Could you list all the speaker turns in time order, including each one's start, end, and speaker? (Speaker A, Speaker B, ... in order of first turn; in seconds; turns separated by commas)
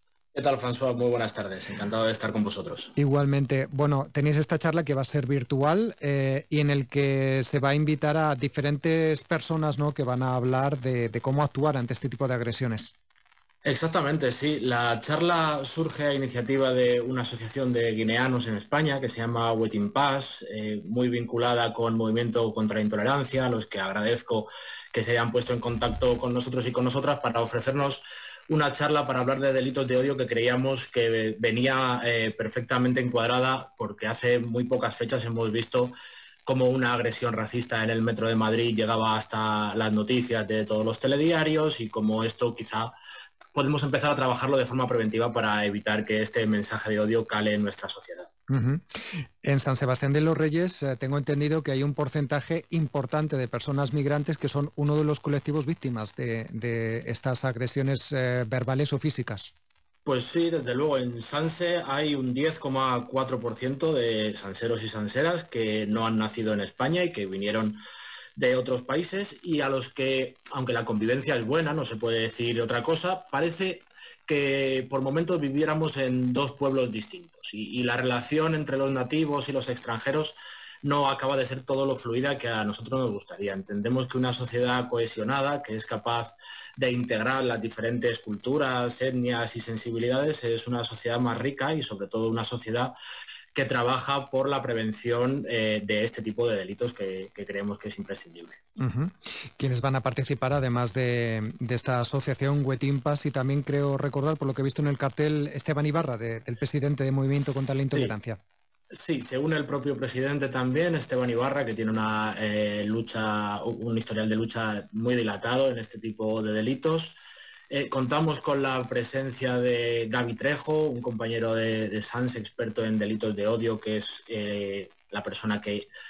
Speaker A: 0.3-2.9, Speaker B: 3.0-12.9, Speaker A: 13.6-42.9, Speaker A: 43.5-48.3, Speaker B: 48.5-59.5, Speaker A: 60.0-67.8, Speaker A: 68.3-92.9, Speaker A: 93.5-98.6, Speaker B: 98.8-108.4, Speaker A: 107.3-108.1, Speaker A: 108.9-117.2, Speaker A: 117.7-125.9